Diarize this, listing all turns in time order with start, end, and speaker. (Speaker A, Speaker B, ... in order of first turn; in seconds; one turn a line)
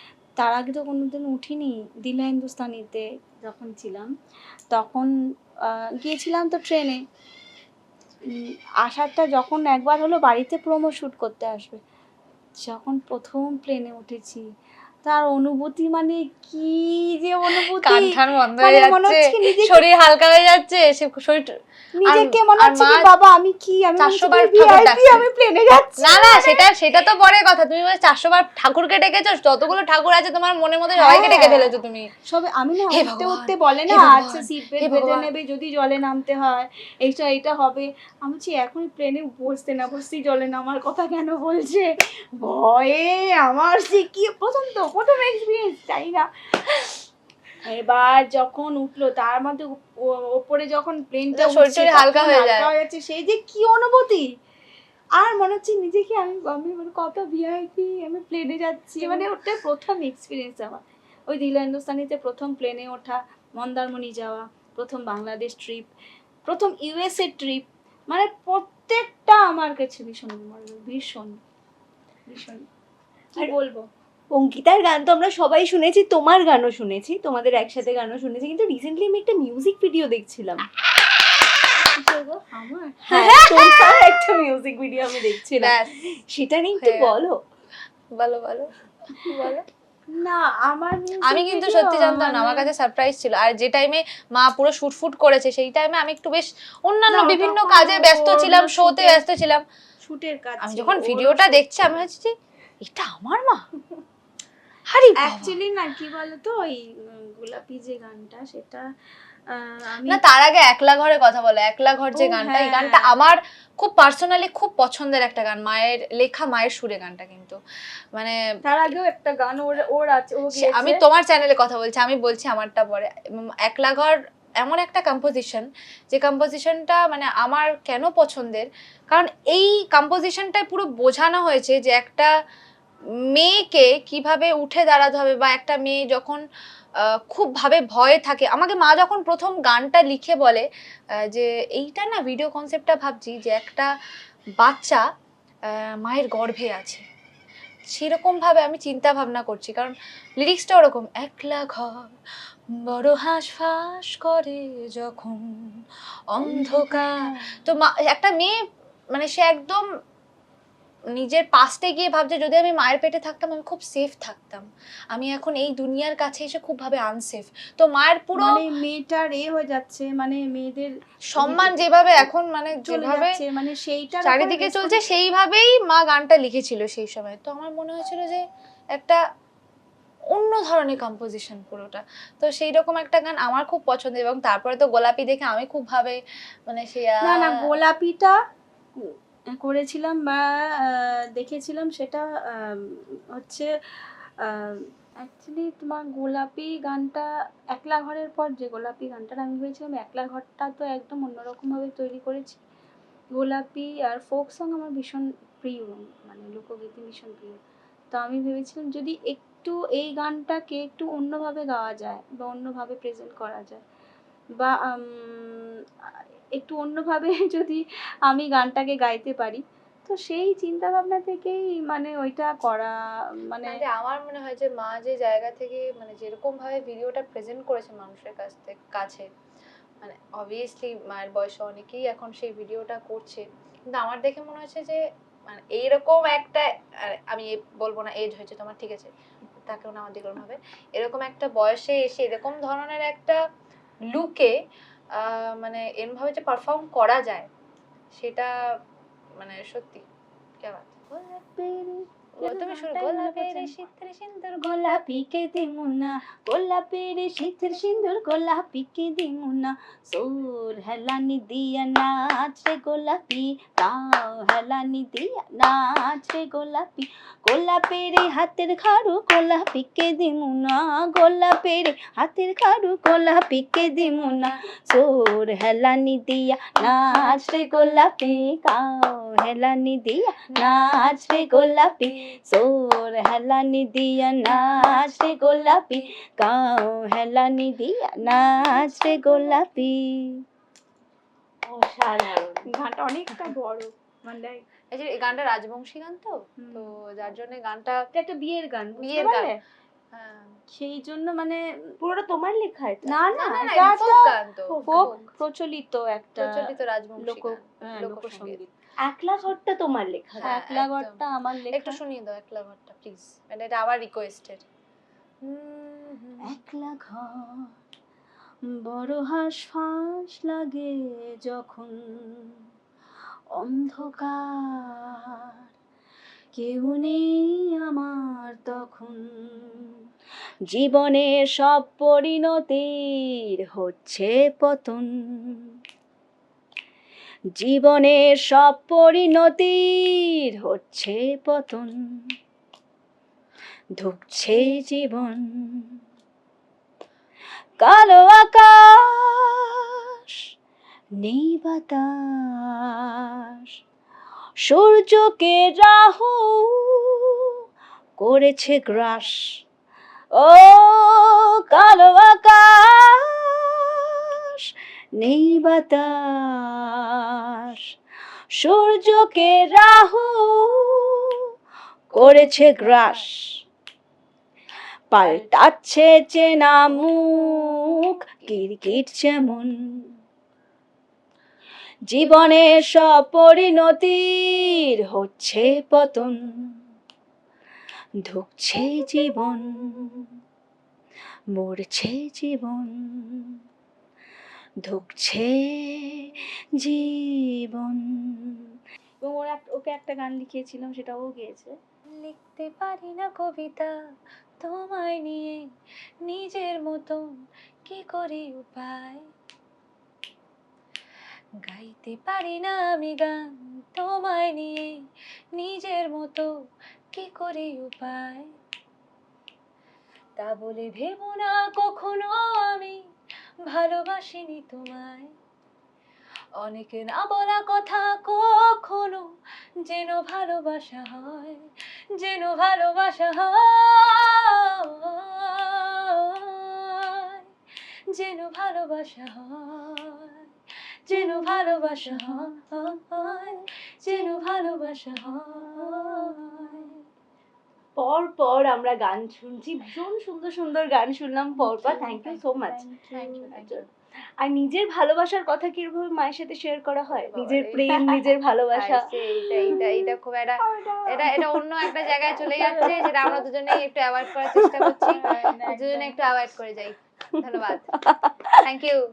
Speaker A: 0.4-4.1
Speaker A: 4.7-5.1
Speaker A: 5.7-7.0
Speaker A: 8.3-11.8
Speaker A: 12.6-14.4
Speaker A: 15.0-18.1
Speaker B: 17.4-21.5
Speaker A: 18.6-19.8
Speaker A: 22.0-26.6
Speaker B: 22.1-23.1
Speaker B: 24.0-25.2
Speaker B: 26.0-32.1
Speaker A: 30.9-31.7
Speaker A: 32.3-46.9
Speaker B: 32.9-35.3
Speaker A: 47.6-54.3
Speaker B: 51.3-52.7
Speaker A: 55.2-65.9
Speaker A: 66.5-71.4
Speaker A: 72.3-72.7
Speaker A: 73.3-73.9
Speaker C: 74.3-80.7
Speaker A: 81.9-83.4
Speaker C: 83.1-85.8
Speaker B: 83.1-84.0
Speaker B: 85.6-86.0
Speaker C: 86.3-87.4
Speaker B: 86.8-87.2
Speaker B: 88.1-89.6
Speaker A: 90.1-92.7
Speaker B: 91.2-99.6
Speaker A: 97.1-99.2
Speaker A: 100.0-101.9
Speaker B: 100.6-103.7
Speaker B: 104.9-105.6
Speaker A: 105.2-108.9
Speaker A: 109.5-110.2
Speaker B: 110.0-117.6
Speaker A: 112.1-113.1
Speaker B: 118.1-118.4
Speaker A: 118.6-121.0
Speaker B: 120.5-132.3
Speaker B: 133.3-136.4
Speaker B: 137.0-140.7
Speaker B: 141.2-143.9
Speaker B: 144.6-145.0
Speaker B: 145.7-147.0
Speaker B: 147.9-152.1
Speaker B: 152.8-158.6
Speaker A: 156.4-157.7
Speaker B: 159.1-159.8
Speaker B: 161.1-168.6
Speaker A: 168.4-171.9
Speaker B: 171.3-173.4
Speaker A: 172.8-175.0
Speaker B: 174.2-179.2
Speaker B: 180.3-187.5
Speaker A: 187.2-188.3
Speaker A: 189.0-193.7
Speaker A: 194.4-202.6
Speaker A: 203.3-207.6
Speaker A: 208.1-213.8
Speaker A: 214.6-215.7
Speaker A: 216.5-223.8
Speaker B: 223.7-229.3
Speaker B: 230.0-243.4
Speaker B: 244.1-244.5
Speaker B: 245.1-247.5
Speaker B: 248.1-248.5
Speaker B: 249.4-250.1
Speaker B: 250.6-250.9
Speaker A: 251.1-290.4
Speaker B: 252.4-254.1
Speaker B: 284.6-285.1
Speaker B: 288.4-289.6
Speaker C: 291.6-292.7
Speaker A: 292.7-294.6
Speaker B: 294.9-298.0
Speaker A: 296.6-296.9
Speaker A: 298.1-299.6
Speaker B: 299.0-299.5
Speaker B: 300.1-300.5
Speaker A: 300.7-301.6
Speaker C: 302.0-303.2
Speaker A: 303.1-304.3
Speaker B: 303.3-305.2
Speaker C: 304.7-305.1
Speaker A: 304.9-306.7
Speaker B: 306.4-308.6
Speaker A: 307.2-308.7
Speaker C: 309.0-310.5
Speaker B: 310.4-314.6
Speaker A: 310.4-312.0
Speaker B: 315.4-316.5
Speaker A: 316.5-317.7
Speaker A: 318.8-322.6
Speaker A: 323.5-325.5
Speaker A: 326.6-329.9
Speaker A: 330.7-335.6
Speaker A: 337.6-341.9
Speaker A: 344.0-345.9
Speaker A: 347.8-350.3
Speaker A: 351.1-353.2
Speaker A: 354.6-357.4
Speaker A: 358.2-359.6
Speaker A: 360.3-364.6
Speaker A: 365.2-367.8
Speaker A: 368.5-371.4
Speaker A: 372.1-373.5
Speaker A: 375.1-380.1
Speaker A: 382.1-386.8
Speaker A: 388.2-390.3
Speaker A: 391.5-393.5
Speaker A: 394.8-398.6
Speaker A: 399.2-401.7
Speaker B: 402.2-403.9
Speaker B: 404.6-405.7
Speaker B: 406.2-407.3
Speaker B: 407.9-409.3
Speaker B: 411.6-416.5
Speaker B: 417.1-418.5
Speaker B: 420.4-423.0
Speaker B: 423.6-425.3
Speaker B: 426.6-429.3
Speaker B: 429.8-437.4
Speaker B: 438.1-440.5
Speaker B: 441.1-447.0
Speaker C: 448.0-452.8
Speaker A: 451.6-453.8
Speaker B: 453.1-453.8
Speaker C: 454.4-459.2
Speaker B: 457.1-458.0
Speaker B: 458.7-468.0
Speaker A: 459.7-461.4
Speaker A: 462.2-463.4
Speaker A: 465.0-466.2
Speaker C: 467.4-468.6
Speaker B: 468.6-469.0